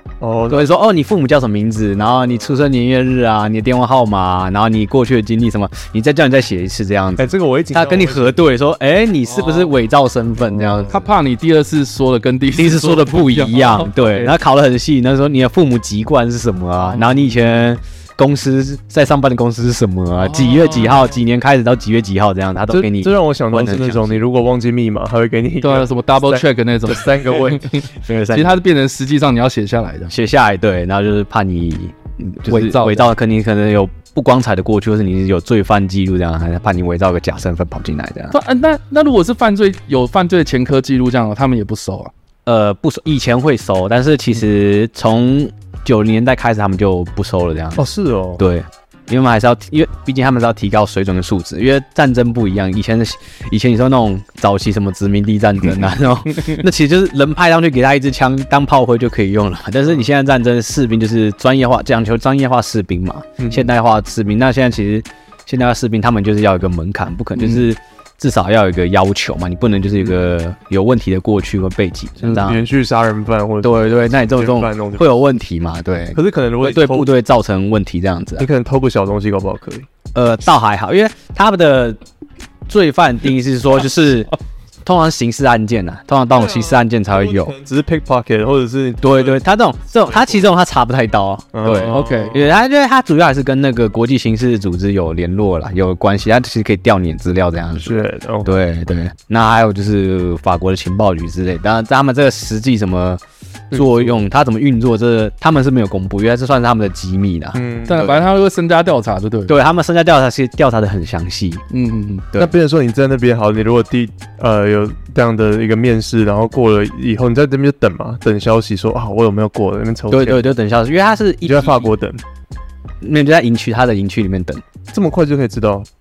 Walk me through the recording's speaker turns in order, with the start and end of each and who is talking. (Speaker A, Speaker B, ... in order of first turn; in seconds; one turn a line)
Speaker A: 0.2-0.7
Speaker B: 0.5-11.0
Speaker A: 7.2-8.4
Speaker C: 9.3-9.7
Speaker A: 10.6-10.9
Speaker C: 10.9-14.3
Speaker B: 12.5-24.2
Speaker C: 16.9-17.2
Speaker C: 20.2-20.9
Speaker A: 22.7-27.8
Speaker C: 25.6-30.1
Speaker B: 27.9-28.6
Speaker B: 30.1-38.4
Speaker C: 32.5-33.1
Speaker C: 38.3-42.1
Speaker B: 42.5-47.8
Speaker A: 47.8-48.4
Speaker B: 48.4-72.6
Speaker A: 63.4-63.7
Speaker A: 72.3-75.1
Speaker B: 73.6-78.5
Speaker A: 76.1-77.1
Speaker A: 78.4-79.9
Speaker B: 80.1-82.0
Speaker B: 82.7-84.3
Speaker B: 84.8-87.5
Speaker A: 86.3-89.4
Speaker B: 89.0-107.6
Speaker A: 90.0-90.5
Speaker A: 91.5-92.5
Speaker C: 91.9-92.4
Speaker A: 97.8-98.6
Speaker A: 103.7-104.2
Speaker A: 107.5-108.2
Speaker C: 107.9-109.5
Speaker B: 109.5-111.6
Speaker C: 111.7-112.3
Speaker A: 112.3-120.4
Speaker B: 120.1-121.9
Speaker A: 121.4-122.2
Speaker B: 123.0-124.6
Speaker A: 124.9-125.9